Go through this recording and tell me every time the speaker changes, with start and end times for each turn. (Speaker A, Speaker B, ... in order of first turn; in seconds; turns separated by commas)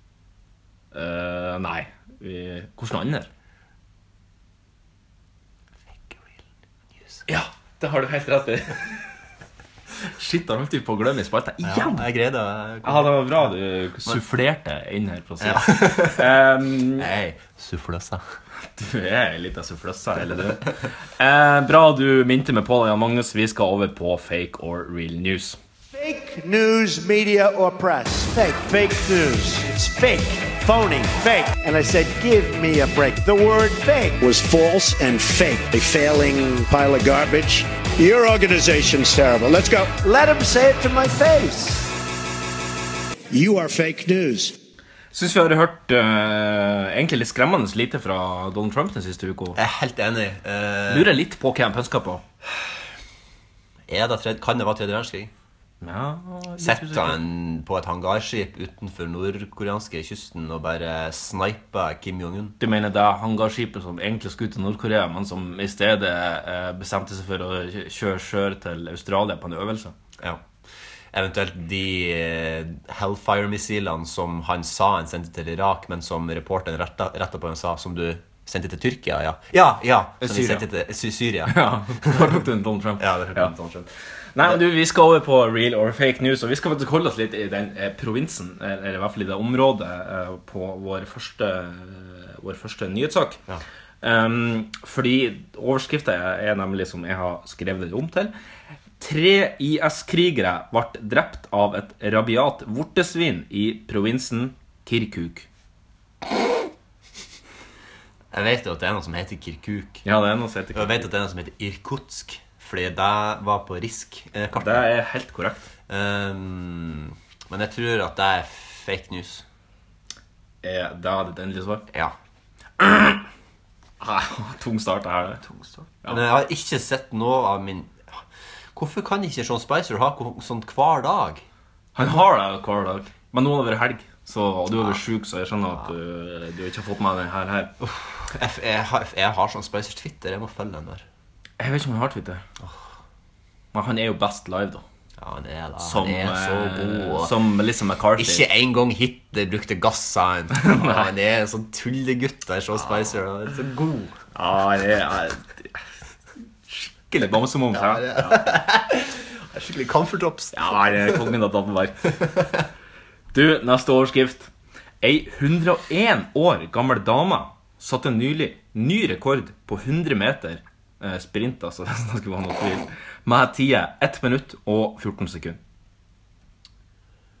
Speaker A: 0.9-3.3, Speaker B: 6.1-6.4, Speaker B: 6.9-7.2, Speaker A: 7.3-9.1, Speaker A: 10.1-12.1, Speaker B: 11.6-13.2, Speaker A: 12.8-17.1, Speaker B: 15.4-16.3, Speaker B: 17.0-18.2, Speaker A: 18.7-25.6, Speaker C: 25.9-41.9, Speaker C: 43.3-44.5, Speaker A: 45.1-49.6, Speaker B: 49.5-51.1, Speaker A: 50.9-52.2, Speaker B: 53.9-55.3, Speaker A: 55.8-57.2, Speaker B: 56.6-62.6, Speaker A: 62.6-69.9, Speaker B: 71.1-82.4, Speaker A: 80.2-80.6, Speaker A: 81.5-83.5, Speaker B: 83.0-83.9, Speaker A: 84.3-93.4, Speaker A: 94.0-98.3, Speaker A: 99.0-105.5, Speaker B: 108.3-110.0, Speaker A: 110.0-111.1, Speaker B: 110.7-114.8, Speaker A: 114.5-115.7, Speaker B: 115.9-119.4, Speaker A: 120.6-121.8, Speaker A: 122.8-123.3, Speaker A: 124.0-125.4, Speaker B: 125.5-128.2, Speaker B: 128.7-131.4, Speaker A: 131.9-137.7, Speaker B: 137.8-141.0, Speaker A: 141.6-142.4, Speaker B: 142.6-142.9, Speaker A: 143.7-144.8, Speaker B: 145.2-147.4, Speaker A: 145.8-148.5, Speaker B: 148.2-154.2, Speaker A: 150.5-151.1, Speaker A: 154.3-155.8, Speaker A: 156.7-158.4, Speaker B: 157.7-161.3, Speaker A: 160.5-162.2, Speaker A: 163.3-164.5, Speaker A: 165.0-175.6